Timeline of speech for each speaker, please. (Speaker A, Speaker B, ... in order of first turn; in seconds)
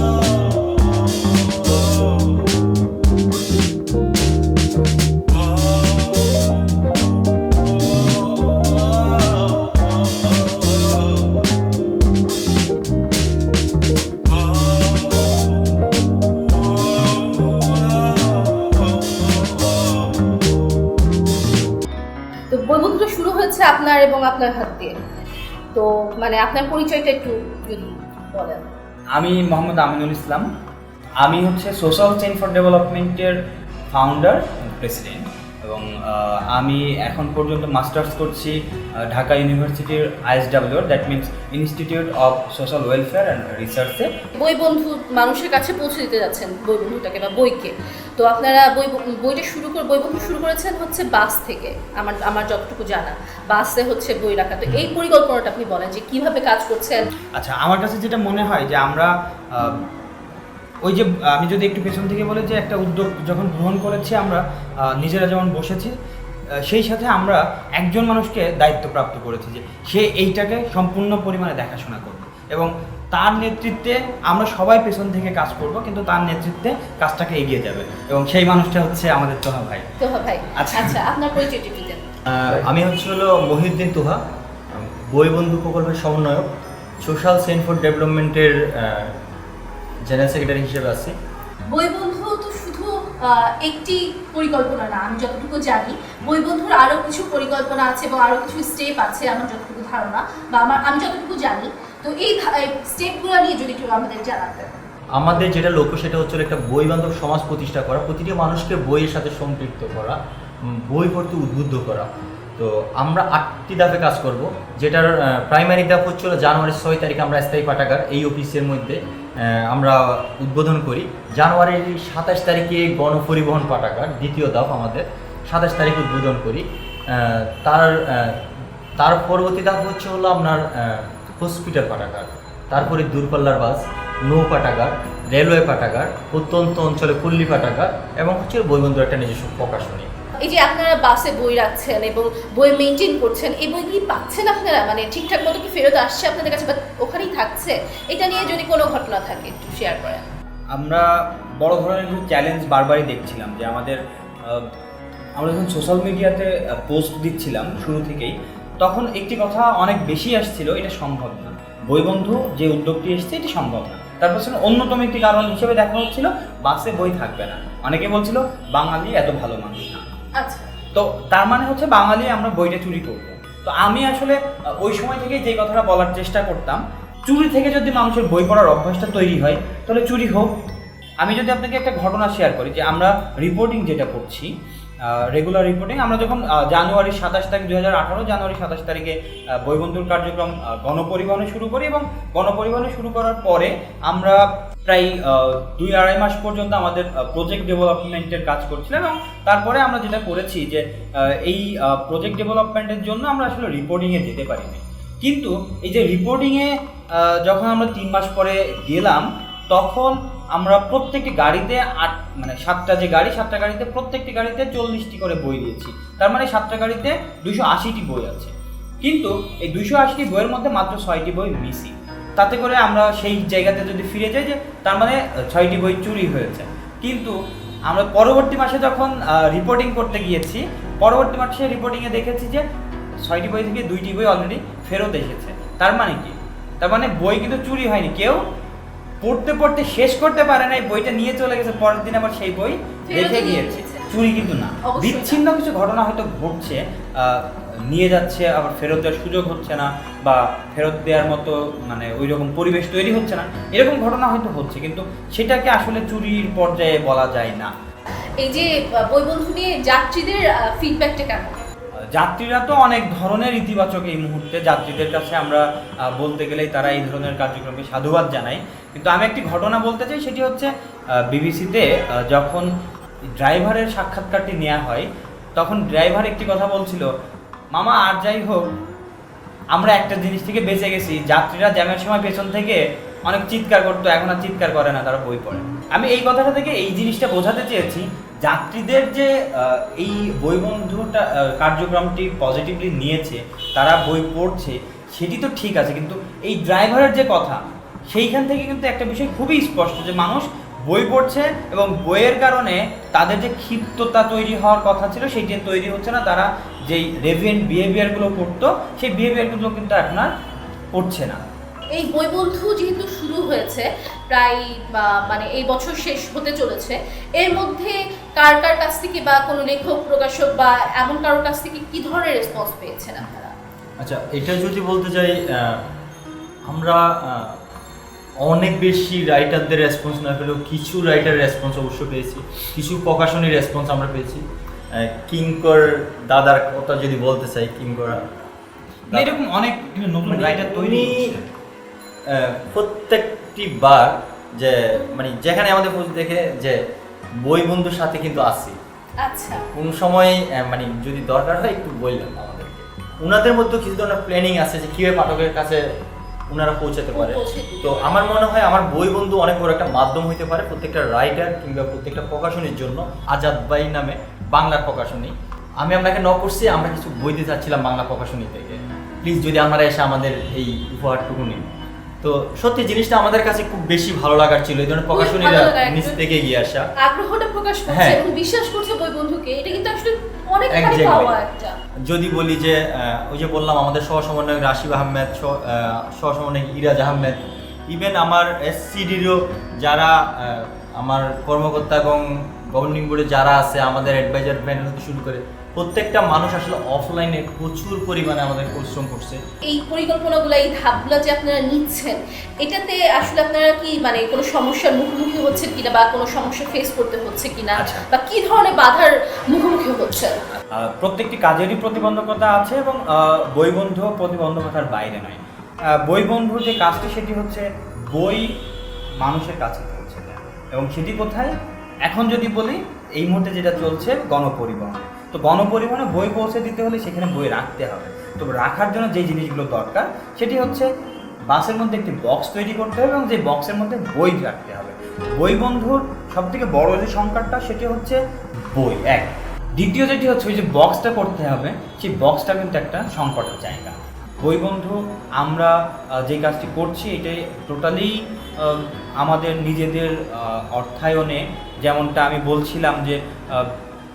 Speaker A: 22.5-24.9, 25.7-28.6, 44.4-57.0, 80.0-82.0, 91.7-104.7, 140.4-150.2, 170.4-170.7, 243.1-244.1, 244.8-245.4, 258.4-261.6, 311.9-323.5, 349.2-349.6, 357.1-358.2, 375.1-376.2, 377.0-381.8, 399.6-410.4
Speaker B: 29.1-30.5, 31.2-33.4, 33.9-44.1, 57.3-59.8, 60.8-65.9, 66.6-79.9, 80.5-81.0, 150.7-154.7, 155.3-170.1, 170.9-180.5, 181.2-184.5, 185.0-227.3, 227.9-232.6, 233.2-238.4, 239.2-257.7, 262.1-272.7, 273.4-277.1, 277.7-278.7, 279.7-310.3, 310.9-311.4, 339.1-341.5, 407.8-408.1, 410.7-418.5, 419.2-421.5, 422.1-430.9, 431.5-453.7
Speaker C: 82.3-84.2, 84.7-86.5, 87.0-89.1, 90.0-91.1, 105.2-110.2, 110.7-140.1, 324.0-325.9, 326.7-327.6, 328.4-338.2, 339.1-339.4, 340.2-341.3, 342.3-346.8, 347.4-348.8, 349.7-355.8, 356.5-371.7, 372.2-376.9, 377.9-378.2, 380.7-381.3, 382.0-387.4, 387.9-399.4